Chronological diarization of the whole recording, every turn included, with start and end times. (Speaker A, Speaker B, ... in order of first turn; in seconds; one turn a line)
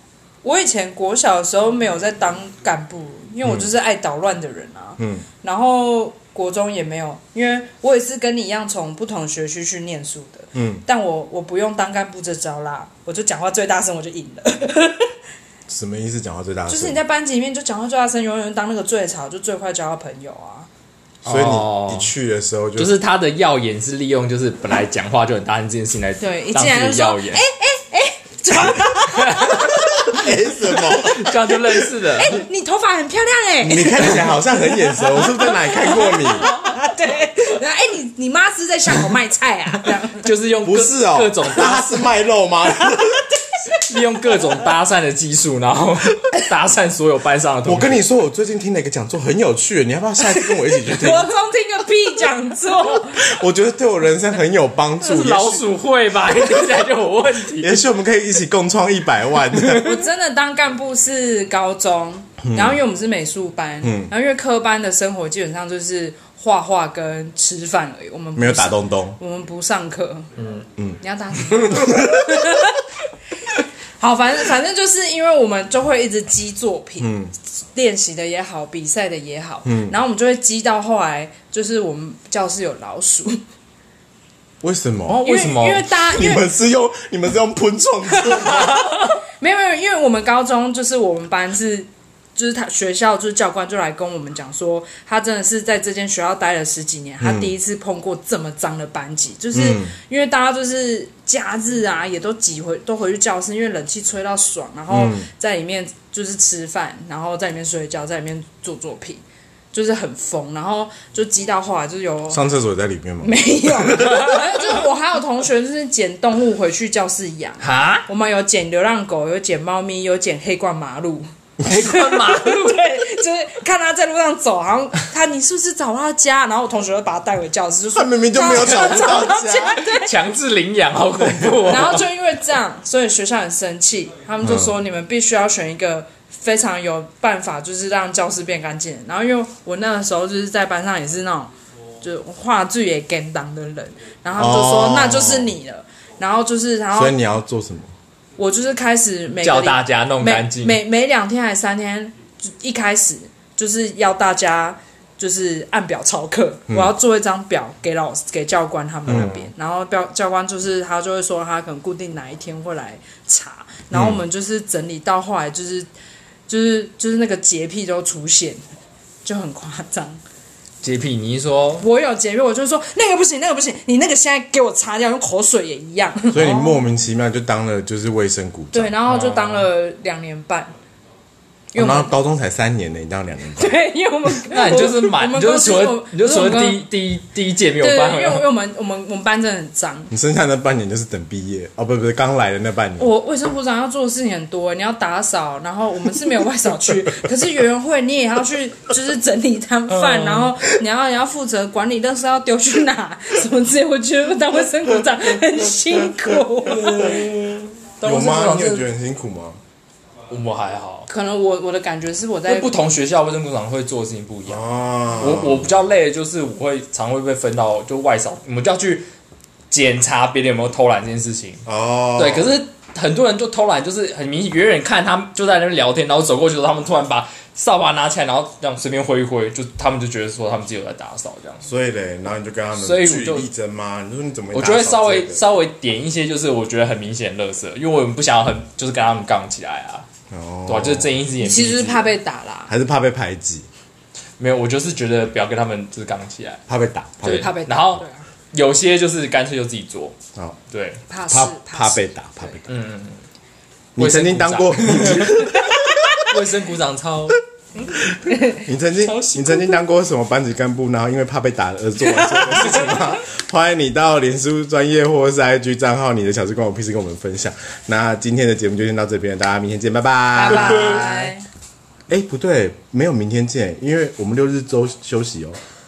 Speaker A: 0.4-15.1
Speaker B: 5.0-5.3
Speaker B: 10.5-10.8
Speaker B: 15.7-17.0
Speaker A: 16.7-20.7
Speaker C: 21.2-22.1
Speaker B: 21.2-22.9
Speaker C: 22.8-27.4
Speaker A: 26.2-40.3
Speaker C: 29.1-29.7
Speaker B: 30.0-31.4
Speaker C: 30.9-32.3
Speaker B: 33.6-36.5
Speaker C: 40.2-42.0
Speaker B: 40.6-43.3
Speaker C: 43.8-48.0
Speaker B: 47.6-51.3
Speaker A: 50.3-53.4
Speaker B: 53.2-55.7
Speaker C: 55.0-57.8
Speaker B: 57.5-59.8
Speaker C: 59.5-60.0
Speaker A: 59.8-70.3
Speaker B: 62.4-62.8
Speaker B: 63.8-64.1
Speaker B: 68.3-69.2
Speaker C: 70.4-70.6
Speaker B: 70.8-72.2
Speaker A: 71.0-72.8
Speaker A: 74.0-77.1
Speaker B: 77.0-77.3
Speaker A: 77.7-83.4
Speaker B: 79.6-79.9
Speaker B: 84.6-85.3
Speaker C: 85.1-85.9
Speaker A: 85.2-86.5
Speaker B: 86.0-88.8
Speaker A: 88.1-112.4
Speaker B: 97.2-97.5
Speaker B: 99.5-99.9
Speaker B: 104.9-105.3
Speaker B: 112.3-114.1
Speaker A: 113.2-130.1
Speaker C: 117.6-118.1
Speaker C: 121.6-122.7
Speaker B: 127.9-129.8
Speaker C: 128.6-129.1
Speaker C: 129.7-132.1
Speaker A: 131.6-147.1
Speaker B: 134.4-134.7
Speaker B: 144.3-145.5
Speaker B: 146.9-147.9
Speaker A: 148.4-165.9
Speaker C: 149.4-150.8
Speaker B: 159.1-159.3
Speaker C: 159.1-159.4
Speaker B: 163.9-164.2
Speaker A: 166.5-168.6
Speaker A: 169.2-170.2
Speaker C: 170.8-171.8
Speaker A: 171.8-176.8
Speaker B: 176.3-178.9
Speaker A: 178.7-180.7
Speaker C: 179.1-179.7
Speaker A: 181.7-182.1
Speaker B: 181.7-183.8
Speaker A: 183.5-186.9
Speaker C: 184.5-188.4
Speaker A: 187.8-190.1
Speaker B: 190.1-193.1
Speaker A: 193.0-207.2
Speaker C: 199.9-200.6
Speaker C: 206.7-208.9
Speaker B: 208.0-209.6
Speaker C: 210.3-211.1
Speaker A: 211.1-212.7
Speaker C: 212.5-214.6
Speaker B: 214.4-215.8
Speaker C: 215.2-219.1
Speaker C: 219.7-221.6
Speaker B: 221.7-222.6
Speaker C: 222.2-231.6
Speaker B: 231.6-235.4
Speaker C: 232.8-233.5
Speaker C: 234.5-240.1
Speaker B: 240.3-241.2
Speaker C: 240.7-242.1
Speaker A: 241.4-242.7
Speaker B: 242.7-243.7
Speaker C: 244.4-246.6
Speaker B: 246.7-247.5
Speaker C: 247.2-250.2
Speaker A: 247.2-248.3
Speaker C: 250.7-251.0
Speaker A: 251.1-252.0
Speaker B: 251.3-252.7
Speaker C: 252.7-253.2
Speaker B: 253.9-256.0
Speaker C: 254.0-255.4
Speaker A: 255.3-255.8
Speaker C: 256.2-257.4
Speaker A: 258.3-258.6
Speaker B: 258.5-271.1
Speaker C: 259.0-259.8
Speaker C: 262.1-263.1
Speaker A: 270.3-271.4
Speaker C: 270.5-271.2
Speaker B: 272.1-275.6